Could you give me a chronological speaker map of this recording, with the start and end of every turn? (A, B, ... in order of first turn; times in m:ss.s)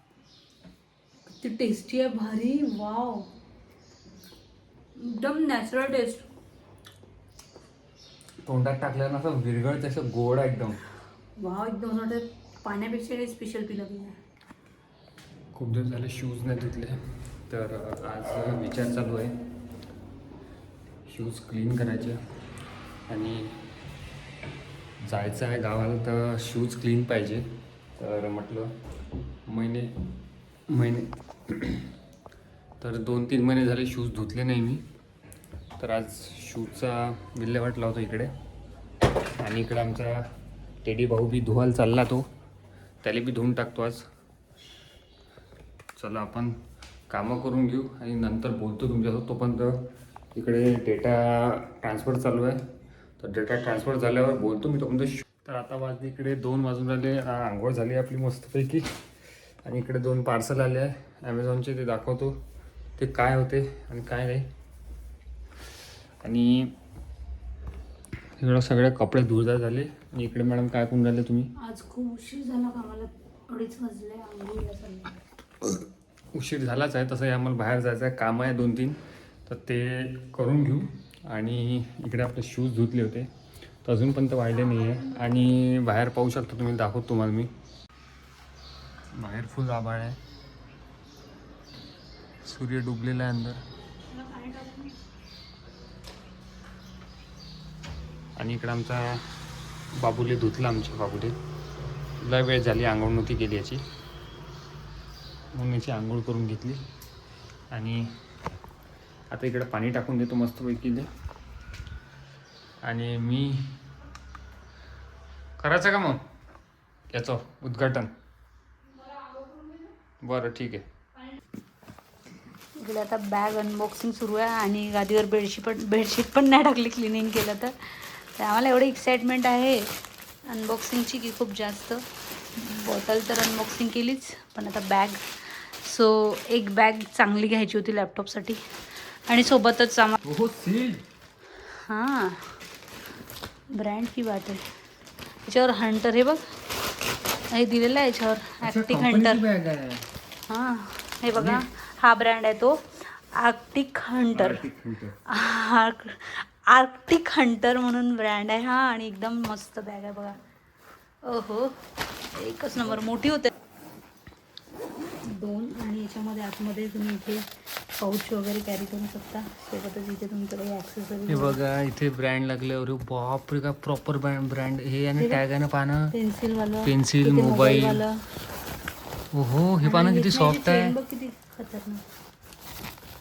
0:01.3-0:03.3 A
0:05.0-0:06.3 A
0:08.4-0:10.8 B
0:11.4-0:14.2 A
0:15.5-0:17.0 B
0:17.5-0:19.3 B
0:21.1-0:22.2 B
0:23.1-0:23.6 B
0:25.0-0:27.4 B
0:28.0-0:28.7 B
0:29.5-0:29.9 B
0:30.7-0:31.9 B
0:32.8-0:34.8 B
0:35.8-0:38.3 B
0:39.4-0:40.2 B
0:40.8-0:42.3 B
0:43.0-0:44.0 B
0:46.0-0:46.5 B
0:47.1-0:52.6 B
0:53.2-0:58.9 B
0:59.6-1:02.4 B
1:03.0-1:04.5 B
1:06.2-1:06.7 B
1:08.4-1:11.5 B
1:11.6-1:15.1 A
1:15.6-1:23.3 B
1:23.8-1:27.5 B
1:24.6-1:25.5 A
1:29.2-1:30.2 B
1:32.4-1:33.6 B
1:34.1-1:35.0 A
1:38.4-1:39.2 B
1:40.0-1:41.4 B
1:42.2-1:43.8 B
1:45.5-1:46.8 B
1:47.7-1:48.1 B
1:49.3-1:51.1 B
1:52.8-1:53.8 B
1:55.6-1:56.2 B
1:57.1-1:58.1 B
1:59.0-1:59.8 A
2:00.2-2:00.8 B
2:02.8-2:09.9 A
2:10.5-2:12.0 A
2:12.6-2:18.6 A
2:19.3-2:20.2 A
2:20.2-2:21.0 B
2:21.7-2:22.6 A
2:23.7-2:24.6 A
2:25.5-2:26.4 A
2:27.5-2:29.4 A
2:28.6-2:30.1 B
2:30.5-2:34.6 A
2:31.3-2:31.6 B
2:34.4-2:35.2 B
2:35.3-2:40.4 A
2:41.2-2:41.8 A
2:42.3-2:43.5 A
2:45.2-2:51.6 A
2:51.3-2:56.1 B
2:56.1-2:58.2 A
2:56.8-2:58.0 B
2:59.3-3:01.0 B
2:59.8-3:02.0 A